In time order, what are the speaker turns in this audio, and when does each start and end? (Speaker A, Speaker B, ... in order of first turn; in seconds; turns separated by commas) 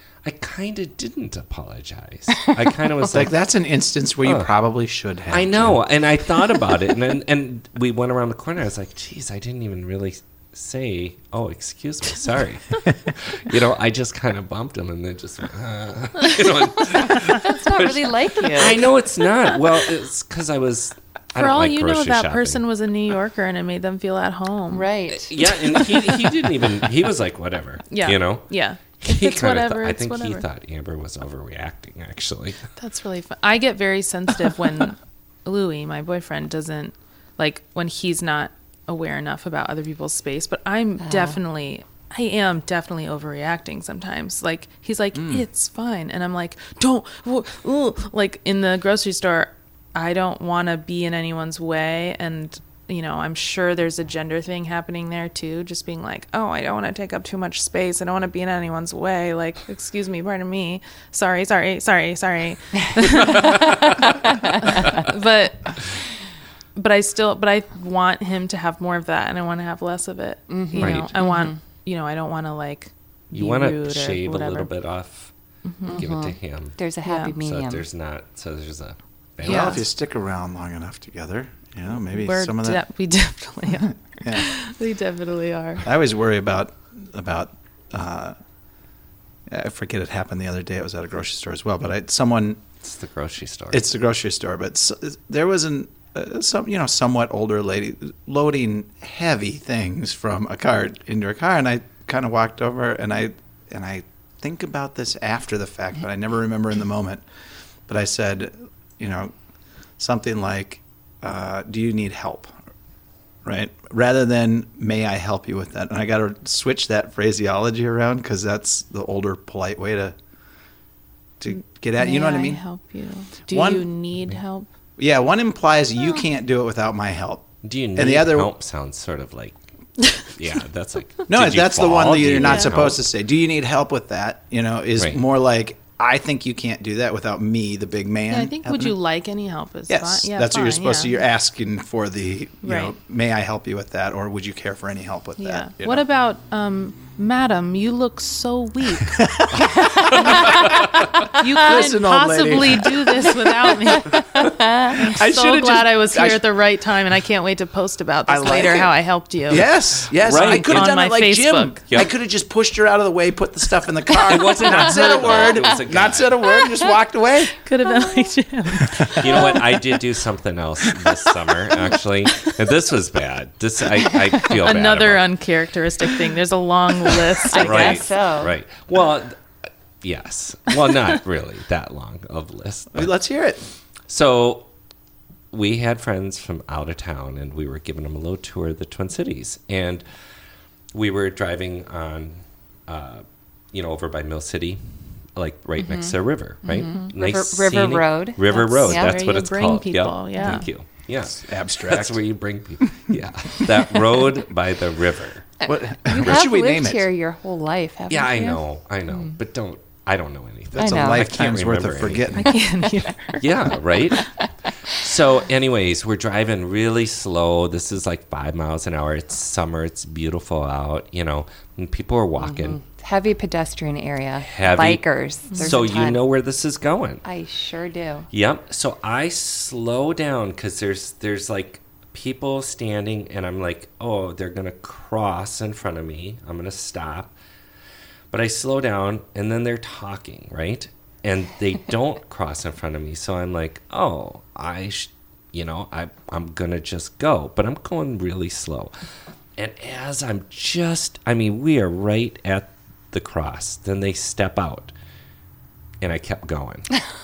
Speaker A: 0.2-3.4, Speaker B: 3.1-5.8, Speaker A: 4.2-4.5, Speaker A: 5.3-22.6, Speaker C: 17.1-18.9, Speaker D: 21.4-24.9, Speaker C: 24.7-25.8, Speaker A: 25.1-32.7, Speaker D: 27.9-30.4, Speaker D: 32.8-65.8, Speaker C: 41.0-41.4, Speaker B: 45.1-45.4, Speaker D: 66.8-74.7, Speaker C: 70.5-71.6, Speaker A: 70.8-71.1, Speaker A: 73.3-75.3, Speaker D: 75.7-76.0, Speaker C: 75.9-77.8, Speaker A: 75.9-76.8, Speaker D: 77.0-77.4, Speaker A: 77.4-79.8, Speaker B: 79.4-82.8, Speaker D: 79.5-79.8, Speaker D: 82.1-85.9, Speaker B: 84.2-84.5, Speaker B: 85.8-88.3, Speaker B: 89.5-92.6, Speaker A: 92.8-93.9, Speaker B: 93.7-107.2, Speaker B: 107.9-109.3, Speaker B: 110.0-112.5, Speaker B: 113.5-120.2, Speaker B: 121.4-122.6, Speaker D: 122.0-124.7, Speaker B: 123.5-123.9, Speaker B: 125.0-128.5, Speaker A: 127.6-129.6, Speaker A: 130.2-133.0, Speaker B: 131.3-138.9, Speaker D: 132.4-132.7, Speaker D: 138.3-141.2, Speaker B: 139.9-146.0, Speaker D: 142.6-142.9, Speaker D: 145.4-149.2, Speaker B: 149.2-156.4, Speaker C: 149.9-150.7, Speaker D: 150.2-150.7, Speaker D: 151.3-159.7, Speaker C: 154.1-155.0, Speaker B: 158.3-158.9, Speaker B: 159.5-167.6, Speaker A: 160.2-160.9, Speaker D: 160.3-161.8, Speaker A: 164.2-166.5, Speaker D: 167.6-169.6, Speaker B: 168.9-169.5, Speaker A: 169.1-175.3, Speaker D: 174.4-178.1, Speaker C: 177.4-178.6, Speaker A: 177.5-179.4, Speaker A: 180.0-183.1, Speaker B: 182.9-183.6, Speaker A: 184.1-184.7, Speaker A: 185.5-190.1, Speaker A: 190.9-194.8, Speaker A: 195.3-205.5, Speaker C: 195.8-199.2, Speaker D: 198.8-200.7, Speaker B: 201.3-202.2, Speaker C: 205.6-208.6, Speaker B: 205.7-207.0, Speaker A: 208.1-212.5, Speaker B: 210.7-212.6, Speaker C: 210.8-211.3, Speaker D: 212.4-213.4, Speaker A: 213.4-214.3, Speaker A: 214.9-222.8, Speaker C: 222.4-226.2, Speaker A: 224.4-227.2, Speaker C: 227.2-228.3, Speaker A: 228.3-237.3, Speaker A: 238.3-248.9, Speaker A: 249.6-254.9, Speaker A: 256.0-257.0